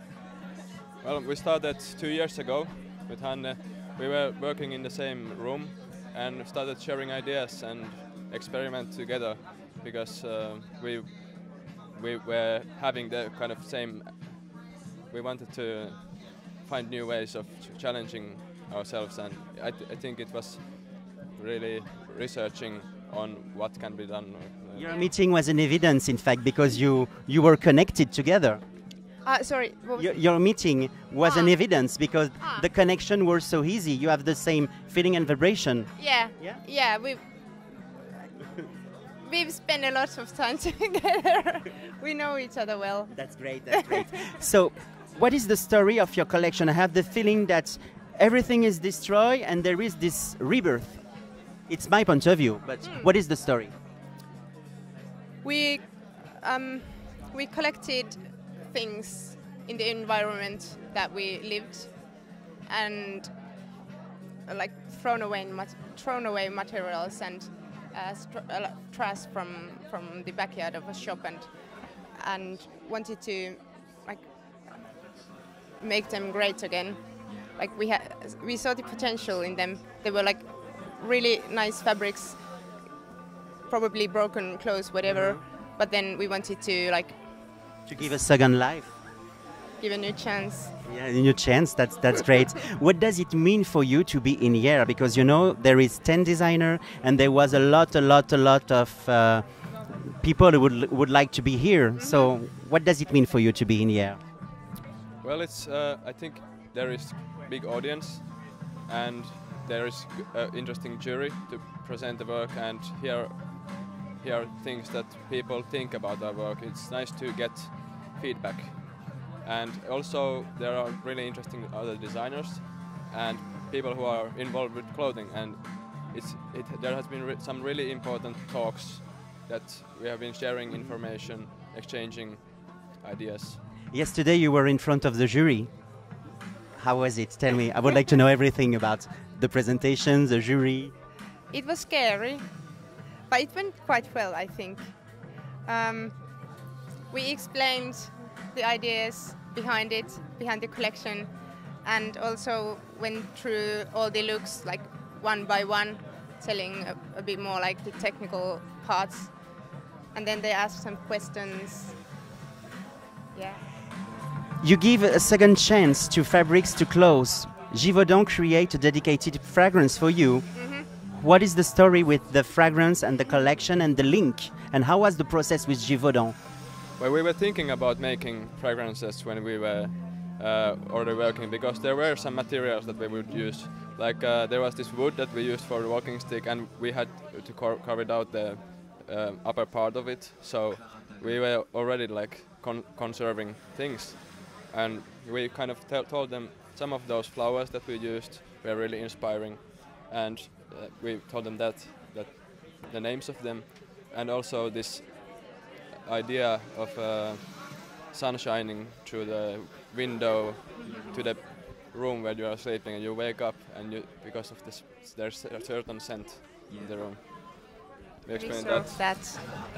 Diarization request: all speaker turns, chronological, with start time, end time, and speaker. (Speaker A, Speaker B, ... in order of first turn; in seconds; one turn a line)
Speaker A: 1.0-14.5
Speaker A: 15.1-24.9
Speaker B: 24.7-28.6
Speaker C: 24.9-25.1
Speaker C: 29.2-30.1
Speaker B: 29.9-36.6
Speaker C: 31.2-31.6
Speaker C: 32.4-32.7
Speaker C: 36.0-37.2
Speaker C: 39.2-44.0
Speaker B: 43.1-53.7
Speaker C: 52.8-53.1
Speaker C: 55.4-62.1
Speaker C: 62.6-63.3
Speaker C: 64.5-74.3
Speaker C: 75.8-82.4
Speaker C: 83.7-87.4
Speaker B: 85.0-85.4
Speaker B: 87.9-88.9
Speaker C: 89.8-90.7
Speaker B: 90.8-104.2
Speaker C: 102.0-102.3
Speaker A: 105.2-133.6
Speaker B: 133.9-135.8
Speaker B: 136.8-140.9
Speaker C: 141.5-142.5
Speaker C: 143.3-145.1
Speaker C: 145.6-146.2
Speaker C: 147.1-161.9
Speaker C: 163.3-163.6
Speaker B: 164.6-176.3
Speaker C: 170.5-170.9
Speaker A: 177.0-205.4
Speaker A: 206.0-219.3
Speaker C: 210.8-211.2
Speaker C: 218.3-219.4